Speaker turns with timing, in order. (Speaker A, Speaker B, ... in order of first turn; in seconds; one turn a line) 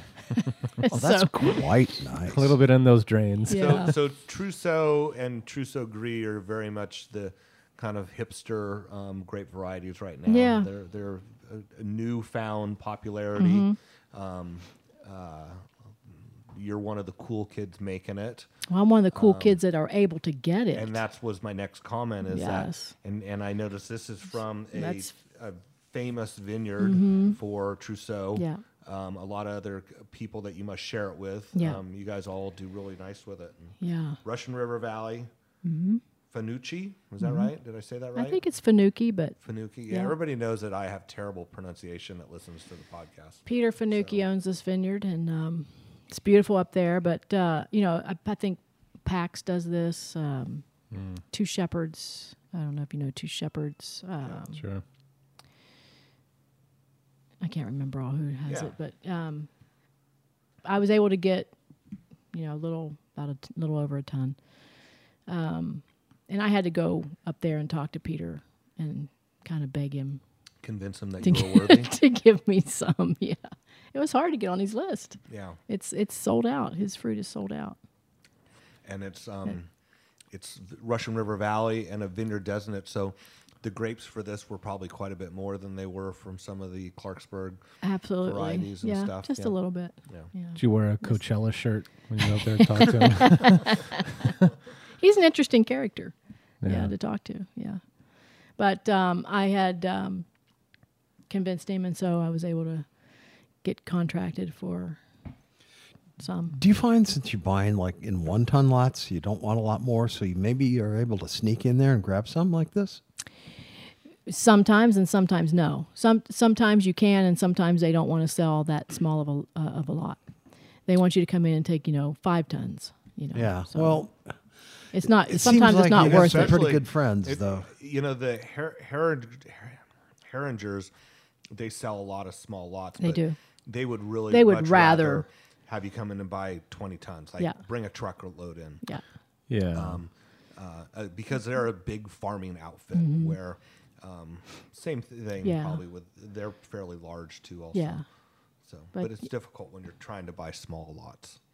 Speaker A: 0.3-1.6
Speaker B: 0.8-2.6
Speaker C: 2.2-3.9
Speaker A: 3.5-3.9
Speaker D: 3.5-15.7
Speaker A: 10.3-10.7
Speaker A: 13.4-13.8
Speaker D: 16.5-18.5
Speaker A: 18.7-21.0
Speaker D: 19.1-19.6
Speaker D: 20.7-35.3
Speaker A: 22.2-22.9
Speaker A: 24.7-25.1
Speaker A: 26.8-27.4
Speaker A: 28.3-28.6
Speaker A: 31.5-31.8
Speaker A: 33.8-34.2
Speaker A: 35.6-36.0
Speaker D: 36.3-38.4
Speaker A: 37.2-37.5
Speaker A: 38.1-39.4
Speaker D: 39.4-44.2
Speaker A: 39.9-40.1
Speaker A: 43.5-50.6
Speaker C: 50.9-51.2
Speaker A: 51.3-54.6
Speaker C: 54.5-54.8
Speaker A: 57.4-59.5
Speaker D: 58.5-58.7
Speaker A: 60.6-61.5
Speaker A: 62.3-64.4
Speaker A: 65.3-70.2
Speaker D: 70.6-71.9
Speaker A: 71.2-77.8
Speaker D: 75.3-75.6
Speaker D: 78.8-79.7
Speaker D: 80.3-87.6
Speaker A: 87.8-91.2
Speaker D: 88.2-90.3
Speaker C: 90.5-93.9
Speaker A: 92.3-94.3
Speaker A: 95.0-97.8
Speaker C: 96.6-96.9
Speaker A: 98.5-100.2
Speaker A: 101.3-103.0
Speaker A: 103.6-105.0
Speaker A: 106.2-106.5
Speaker B: 106.5-113.0
Speaker A: 114.3-120.2
Speaker A: 120.8-124.0
Speaker B: 123.3-124.3
Speaker A: 124.9-126.6
Speaker B: 125.0-127.7
Speaker D: 125.9-130.9
Speaker D: 131.5-138.8
Speaker A: 133.0-133.3
Speaker A: 134.3-135.2
Speaker C: 139.5-140.0
Speaker D: 139.7-148.0
Speaker A: 142.9-143.3
Speaker A: 145.4-145.8
Speaker A: 147.7-148.0
Speaker D: 148.7-151.4
Speaker A: 148.9-149.2